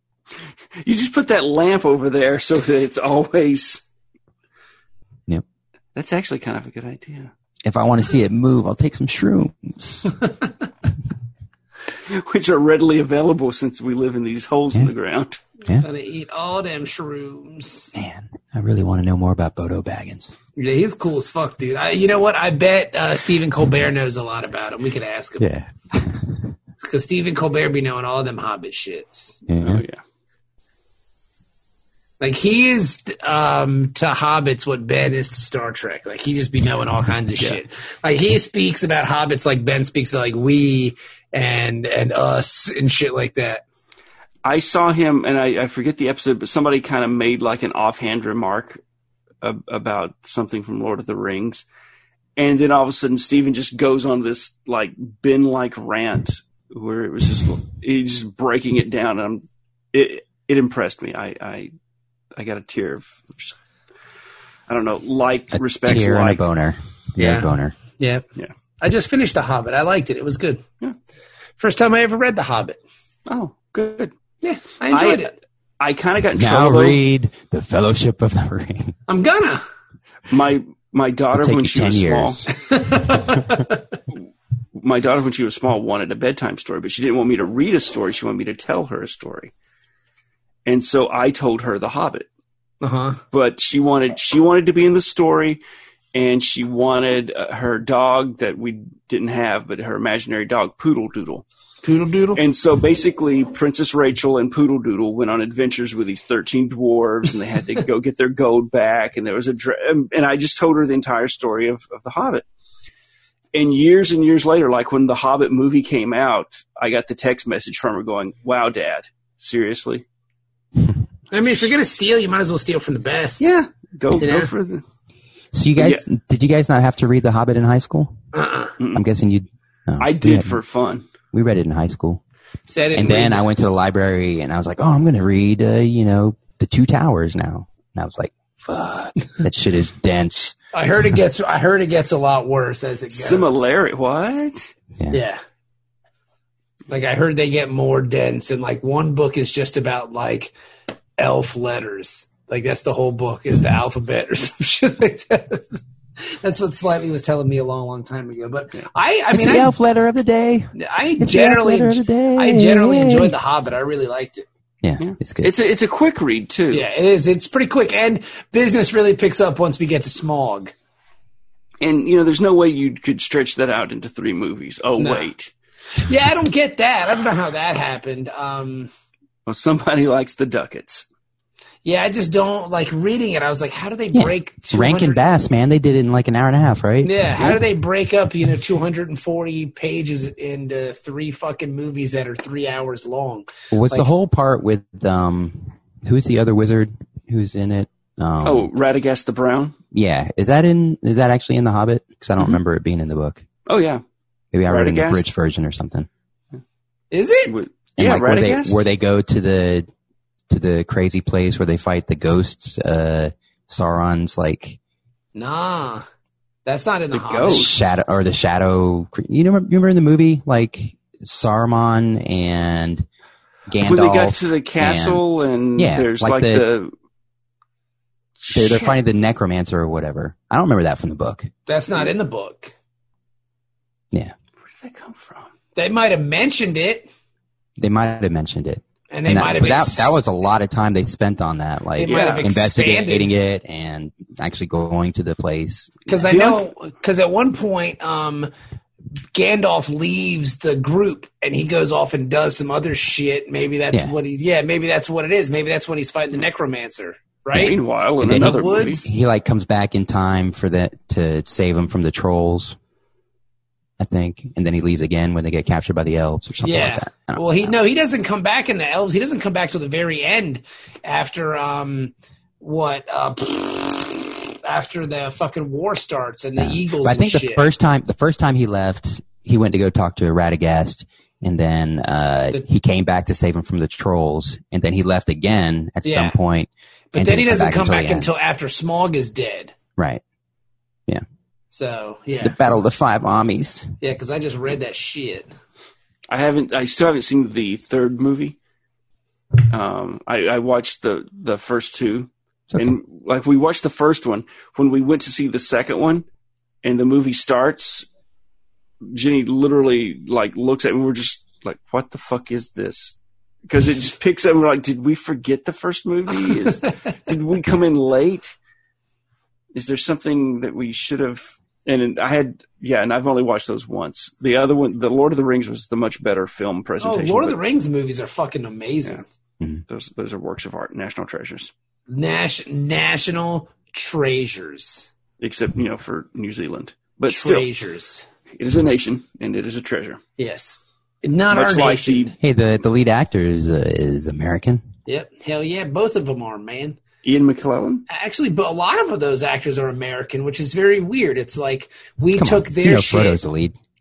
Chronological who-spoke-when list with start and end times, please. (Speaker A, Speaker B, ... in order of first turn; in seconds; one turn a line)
Speaker A: 0.8-3.8
Speaker A: 5.9-7.3
Speaker B: 7.6-10.1
Speaker A: 12.1-15.4
Speaker C: 15.7-17.9
Speaker B: 17.9-20.3
Speaker C: 20.6-25.5
Speaker B: 25.4-26.5
Speaker C: 26.8-29.4
Speaker B: 29.5-29.8
Speaker A: 29.6-30.0
Speaker C: 32.2-43.6
Speaker A: 44.4-48.8
Speaker A: 49.4-51.6
Speaker A: 52.4-61.7
Speaker A: 62.4-63.5
Speaker A: 64.7-66.4
Speaker B: 65.5-67.8
Speaker C: 67.2-68.2
Speaker C: 68.8-70.6
Speaker C: 71.6-72.8
Speaker A: 73.3-74.1
Speaker C: 74.4-75.3
Speaker A: 74.9-77.0
Speaker B: 76.3-78.9
Speaker C: 79.1-79.6
Speaker A: 80.3-82.5
Speaker B: 81.3-82.5
Speaker C: 82.6-83.8
Speaker A: 84.7-89.5
Speaker A: 90.7-92.3
Speaker C: 92.8-93.2
Speaker A: 93.3-95.6
Speaker A: 96.1-101.4
Speaker C: 101.8-102.4
Speaker A: 102.3-112.4
Speaker A: 113.5-120.0
Speaker C: 121.3-123.5
Speaker A: 123.4-124.8
Speaker C: 124.2-124.5
Speaker B: 125.5-128.2
Speaker A: 125.8-126.0
Speaker C: 128.3-128.7
Speaker A: 128.8-129.0
Speaker B: 128.9-130.6
Speaker A: 130.0-131.0
Speaker B: 131.3-132.2
Speaker C: 132.7-133.4
Speaker B: 132.9-140.6
Speaker C: 140.7-143.7
Speaker A: 143.1-144.7
Speaker C: 145.1-145.4
Speaker C: 146.9-150.5
Speaker C: 151.2-155.8
Speaker C: 156.3-159.7
Speaker B: 159.3-163.3
Speaker C: 160.7-164.4
Speaker B: 164.8-165.5
Speaker A: 165.0-166.9
Speaker C: 166.7-170.7
Speaker A: 171.8-175.5
Speaker C: 175.0-175.3
Speaker C: 176.0-178.9
Speaker A: 179.4-181.1
Speaker C: 181.8-185.3
Speaker B: 184.1-187.6
Speaker C: 187.0-194.1
Speaker B: 193.7-198.7
Speaker A: 198.4-199.8
Speaker B: 199.9-203.4
Speaker A: 203.7-204.0
Speaker B: 204.5-206.1
Speaker A: 204.7-205.2
Speaker C: 207.1-207.5
Speaker A: 207.5-208.8
Speaker B: 208.0-209.9
Speaker B: 210.5-214.8
Speaker C: 215.3-216.0
Speaker C: 216.7-217.7
Speaker A: 217.1-217.7
Speaker B: 217.5-223.1
Speaker B: 223.7-225.2
Speaker A: 223.8-226.9
Speaker B: 225.8-226.7
Speaker A: 228.4-229.0
Speaker B: 228.5-231.5
Speaker C: 231.7-232.7
Speaker A: 234.6-235.5
Speaker C: 235.8-237.1
Speaker B: 237.8-246.2
Speaker C: 239.1-240.2
Speaker C: 241.9-243.3
Speaker A: 242.1-242.5
Speaker C: 246.1-248.5
Speaker A: 246.3-246.6
Speaker C: 249.3-259.1
Speaker A: 257.5-259.0
Speaker B: 258.2-262.8
Speaker B: 264.0-267.7
Speaker C: 266.6-277.7
Speaker B: 276.6-288.3
Speaker C: 286.0-286.4
Speaker C: 287.1-289.7
Speaker B: 290.0-290.2
Speaker C: 291.7-292.6
Speaker B: 292.4-293.9
Speaker C: 294.0-295.5
Speaker A: 296.3-298.6
Speaker A: 299.7-306.2
Speaker A: 306.8-308.1
Speaker A: 309.1-313.1
Speaker A: 313.7-318.5
Speaker A: 319.7-327.6
Speaker C: 327.0-329.2
Speaker A: 329.9-331.7
Speaker C: 332.1-335.1
Speaker A: 335.4-337.7
Speaker C: 337.3-338.2
Speaker A: 338.6-340.2
Speaker C: 340.4-342.3
Speaker A: 341.5-342.3
Speaker B: 342.4-344.8
Speaker C: 345.1-347.0
Speaker A: 347.2-348.1
Speaker C: 348.1-353.4
Speaker B: 352.4-353.7